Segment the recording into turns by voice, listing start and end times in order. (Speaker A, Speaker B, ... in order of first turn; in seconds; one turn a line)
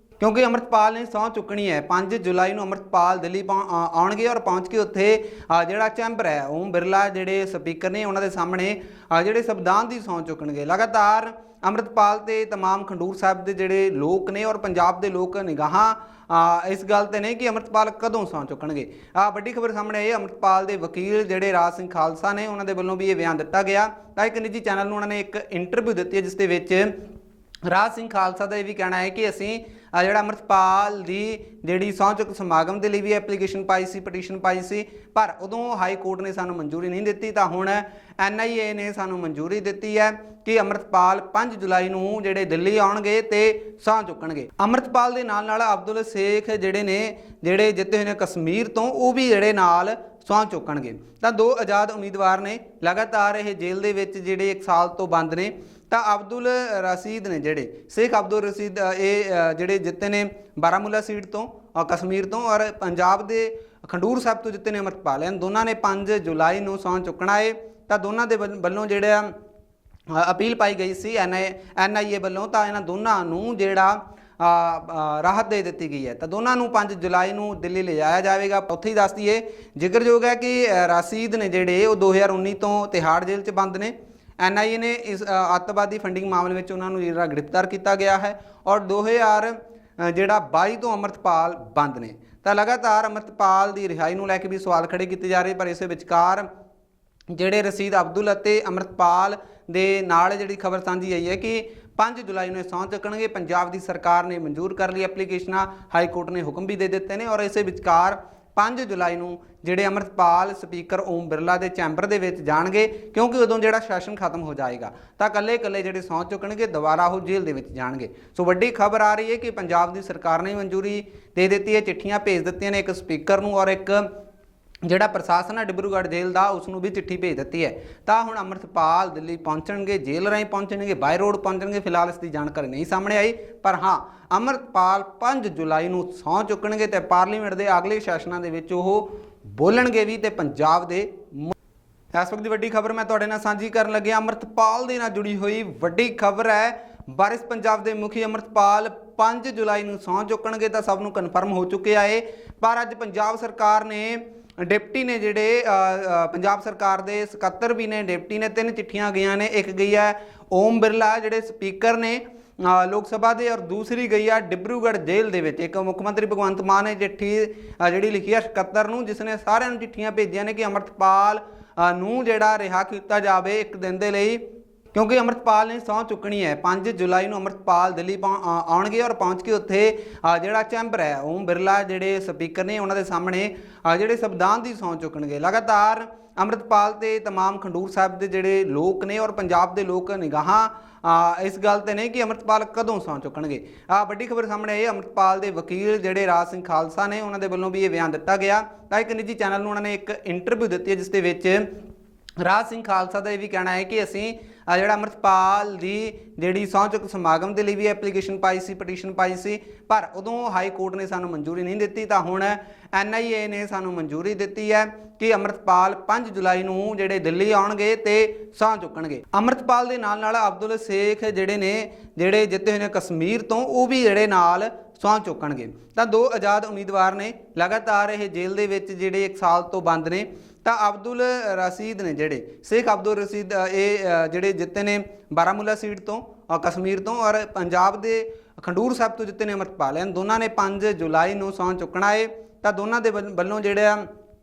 Speaker A: 0.2-26.9
Speaker A: 27.7-69.3
Speaker A: 70.1-96.5
Speaker A: 97.3-124.1
Speaker A: 124.8-141.5
Speaker A: 142.1-174.4
Speaker A: 174.9-201.7
Speaker A: 202.4-244.1